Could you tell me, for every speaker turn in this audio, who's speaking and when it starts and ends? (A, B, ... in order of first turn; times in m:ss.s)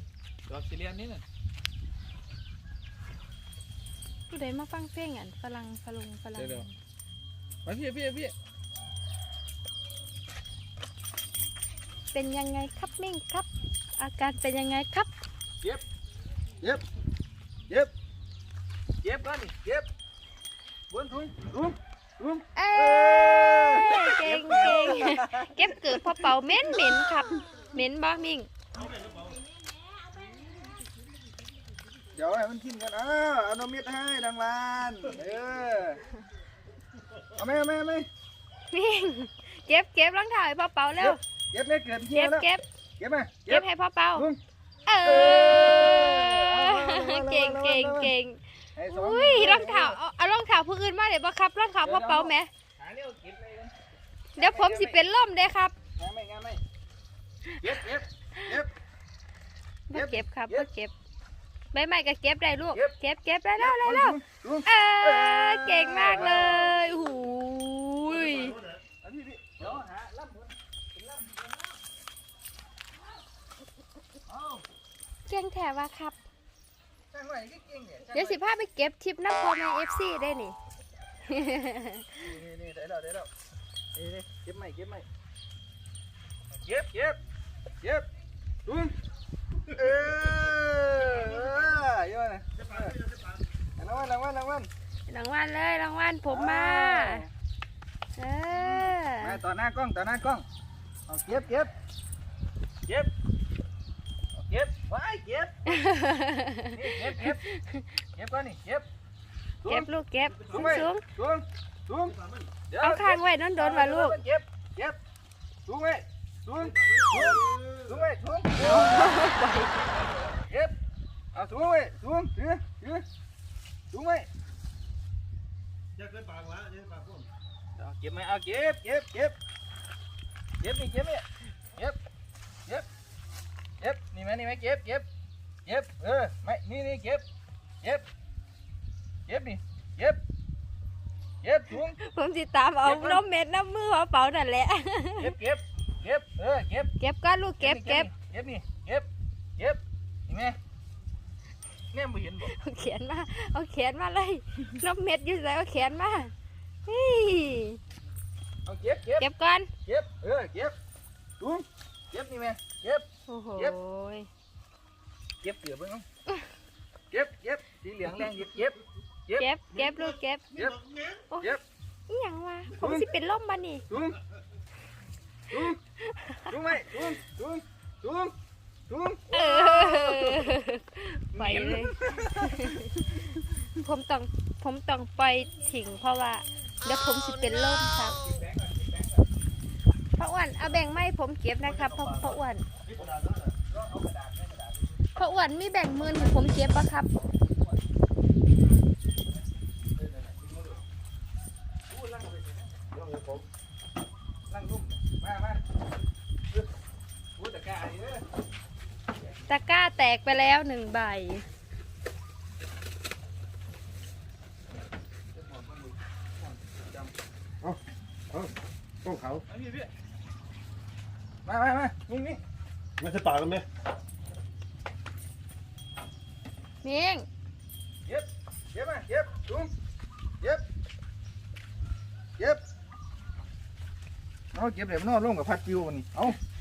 0:00.5-0:01.2 A
0:04.3-0:06.8 B
0:06.4-0:06.7 A
0:07.6-0:08.3 A
0:12.1-0:15.1 B
0:19.0-0:19.9 A
0:20.9-0:27.1 A
0:22.6-0:28.5 B
0:28.8-0:29.4 C
0:32.1-0:36.0 A
0:37.4-0:38.1 A
0:38.7-0:41.2 B
0:41.0-0:42.5 A
0:42.1-0:42.6 B
0:43.0-0:44.4 A
0:43.5-0:44.3 B
0:44.9-0:52.5 B
0:45.0-0:48.1 A
0:48.8-0:50.0 A
0:51.8-0:53.7 A
0:54.4-0:55.8 B
0:54.4-0:55.0 A
0:56.0-0:56.6 A
0:57.6-0:58.7 A
0:59.9-1:00.9 B
0:59.9-1:00.7 A
1:01.7-1:08.6 B
1:03.6-1:07.0 A
1:08.3-1:08.8 C
1:09.0-1:11.5 A
1:14.3-1:14.6 A
1:15.3-1:16.2 B
1:17.1-1:18.4 A
1:18.1-1:20.6 B
1:21.3-1:22.1 B
1:22.1-1:23.3 A
1:23.9-1:25.0 A
1:26.5-1:27.2 A
1:28.7-1:28.9 A
1:29.7-1:33.0 A
1:33.0-1:33.3 C
1:33.8-1:34.7 A
1:35.1-1:37.3 B
1:36.3-1:37.3 A
1:38.2-1:39.4 B
1:38.5-1:40.4 A
1:41.1-1:41.7 A
1:42.9-1:43.1 A
1:44.4-1:45.8 A
1:45.7-1:47.8 B
1:46.7-1:47.4 A
1:48.2-1:48.9 A
1:49.7-1:51.0 B
1:50.4-1:50.7 C
1:50.5-1:52.2 A
1:52.2-1:52.5 C
1:52.7-1:55.0 A
1:52.8-1:54.2 B
1:55.7-1:59.2 A
1:56.8-1:57.8 C
1:58.6-2:00.1 B
2:00.3-2:00.7 A
2:01.3-2:03.0 A
2:03.9-2:04.3 A
2:06.0-2:07.3 C
2:07.8-2:09.4 A
2:10.6-2:11.2 A
2:13.8-2:15.1 A
2:15.6-2:17.2 A
2:19.3-2:20.2 A
2:21.4-2:22.0 A
2:21.7-2:25.4 B
2:22.8-2:23.2 A
2:25.2-2:26.9 A
2:27.0-2:28.1 B
2:27.6-2:30.6 A
2:31.9-2:32.5 A
2:32.4-2:36.3 B
2:36.9-2:37.8 B
2:38.7-2:39.3 A
2:39.2-2:39.7 B
2:39.8-2:40.8 A
2:41.4-2:43.8 A
2:43.3-2:44.3 B
2:45.4-2:46.1 A
2:47.1-2:49.5 A
2:49.4-2:50.5 B
2:50.5-2:50.8 A
2:50.8-2:51.2 C
2:52.1-2:53.9 B
2:52.8-2:53.1 A
2:53.9-2:54.2 A
2:55.5-2:55.8 A
2:56.0-2:56.6 B
2:56.5-2:58.3 A
2:58.9-3:00.5 A
2:59.3-3:08.2 B
3:01.3-3:03.0 A
3:08.1-3:09.2 A
3:10.2-3:12.6 B
3:11.7-3:12.4 C
3:12.9-3:13.6 C
3:13.7-3:15.0 A
3:15.2-3:17.1 B
3:16.0-3:17.8 A
3:20.0-3:20.8 A
3:21.9-3:22.7 A
3:22.9-3:23.4 C
3:24.5-3:25.6 A
3:27.4-3:28.2 A
3:29.5-3:31.5 B
3:35.3-3:37.1 A
3:39.0-3:39.4 C
3:39.5-3:39.9 A
3:41.4-3:42.4 A
3:43.0-3:43.7 C
3:46.8-3:47.3 B
3:48.1-3:49.7 A
3:52.4-3:52.6 A
3:54.5-3:56.4 A